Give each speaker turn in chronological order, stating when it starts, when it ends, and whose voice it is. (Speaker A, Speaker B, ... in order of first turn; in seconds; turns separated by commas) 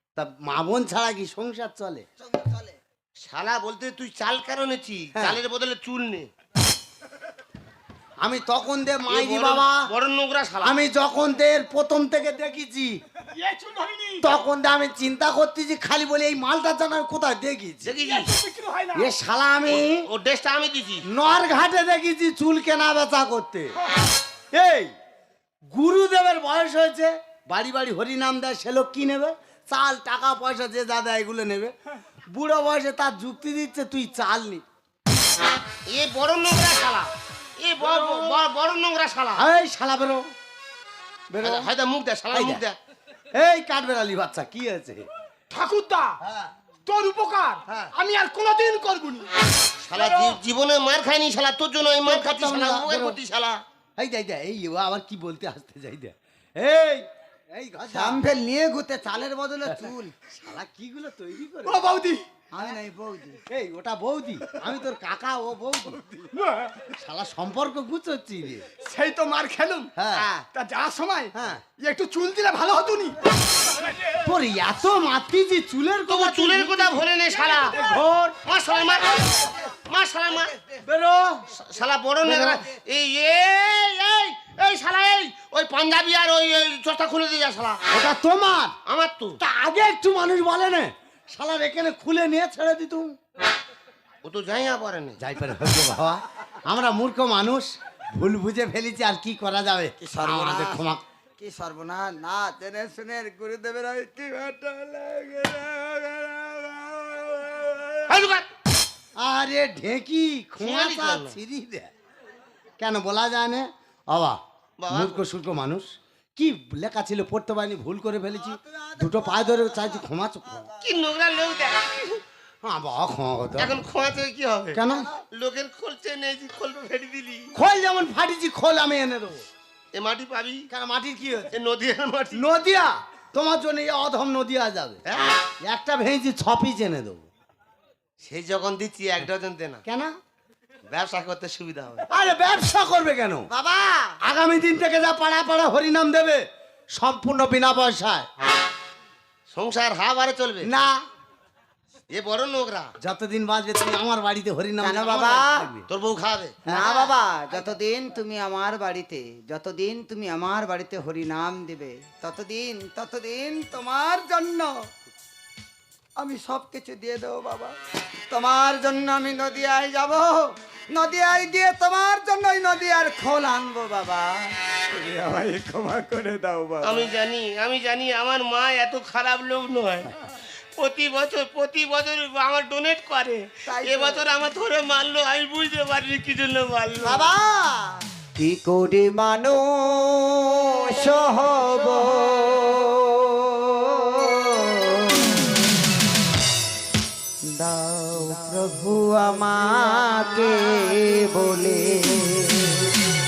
Speaker A: 0.2-2.0, Speaker B: 2.2-2.8, Speaker C: 3.2-6.3, Speaker A: 5.1-5.4, Speaker A: 8.2-9.9, Speaker C: 9.1-10.8, Speaker A: 10.6-13.0, Speaker D: 13.3-14.3, Speaker A: 14.2-17.9, Speaker C: 17.8-18.3, Speaker D: 18.0-19.1, Speaker A: 18.9-20.1, Speaker C: 19.7-21.1, Speaker A: 21.1-23.7, Speaker A: 24.5-24.9, Speaker A: 25.7-31.7, Speaker A: 32.3-34.6, Speaker C: 35.9-39.4, Speaker A: 38.0-38.3, Speaker A: 39.4-40.3, Speaker A: 41.3-41.7, Speaker C: 41.4-42.8, Speaker A: 42.3-42.6, Speaker A: 43.3-45.1, Speaker D: 45.5-46.2, Speaker A: 46.2-46.5, Speaker D: 46.9-49.3, Speaker C: 49.8-53.6, Speaker D: 49.9-50.4, Speaker A: 52.0-53.2, Speaker A: 54.0-58.2, Speaker B: 57.9-60.1, Speaker A: 59.6-61.8, Speaker D: 61.6-62.2, Speaker B: 62.5-63.4, Speaker A: 63.5-66.3, Speaker D: 66.3-66.8, Speaker A: 67.0-68.6, Speaker D: 68.8-69.9, Speaker A: 70.0-70.3, Speaker D: 70.5-74.2, Speaker A: 71.3-71.6, Speaker A: 74.2-77.0, Speaker C: 76.1-77.8, Speaker D: 77.5-78.0, Speaker A: 77.7-78.4, Speaker C: 78.4-80.6, Speaker A: 80.9-81.5, Speaker C: 81.5-87.8, Speaker A: 82.2-82.6, Speaker A: 87.9-88.8, Speaker C: 88.9-89.4, Speaker A: 89.4-93.1, Speaker C: 94.2-95.2, Speaker A: 95.2-101.0, Speaker B: 100.0-100.9, Speaker B: 101.4-108.1, Speaker C: 108.1-108.5, Speaker A: 109.2-111.9, Speaker C: 110.6-111.4, Speaker A: 112.8-120.7, Speaker C: 114.8-115.2, Speaker B: 118.6-119.7, Speaker C: 120.8-122.2, Speaker A: 122.6-123.8, Speaker C: 123.6-124.8, Speaker A: 124.7-125.1, Speaker C: 125.3-127.5, Speaker A: 127.5-129.4, Speaker C: 129.9-130.7, Speaker A: 130.7-131.6, Speaker C: 131.5-132.4, Speaker A: 132.3-135.0, Speaker C: 135.1-135.4, Speaker A: 135.6-137.3, Speaker C: 138.2-139.8, Speaker A: 139.9-140.1, Speaker C: 140.9-142.1, Speaker A: 142.1-143.5, Speaker B: 143.5-144.2, Speaker A: 144.2-146.4, Speaker A: 147.0-148.3, Speaker C: 149.5-150.7, Speaker A: 150.6-151.0, Speaker C: 152.1-152.9, Speaker A: 153.0-155.9, Speaker B: 154.8-155.7, Speaker C: 155.9-156.6, Speaker A: 156.7-157.1, Speaker B: 156.7-164.9, Speaker B: 166.2-167.8, Speaker B: 168.3-174.5, Speaker A: 174.9-176.6, Speaker C: 176.8-180.1, Speaker C: 180.8-187.3, Speaker B: 183.7-184.2, Speaker B: 187.0-195.5, Speaker B: 197.4-202.9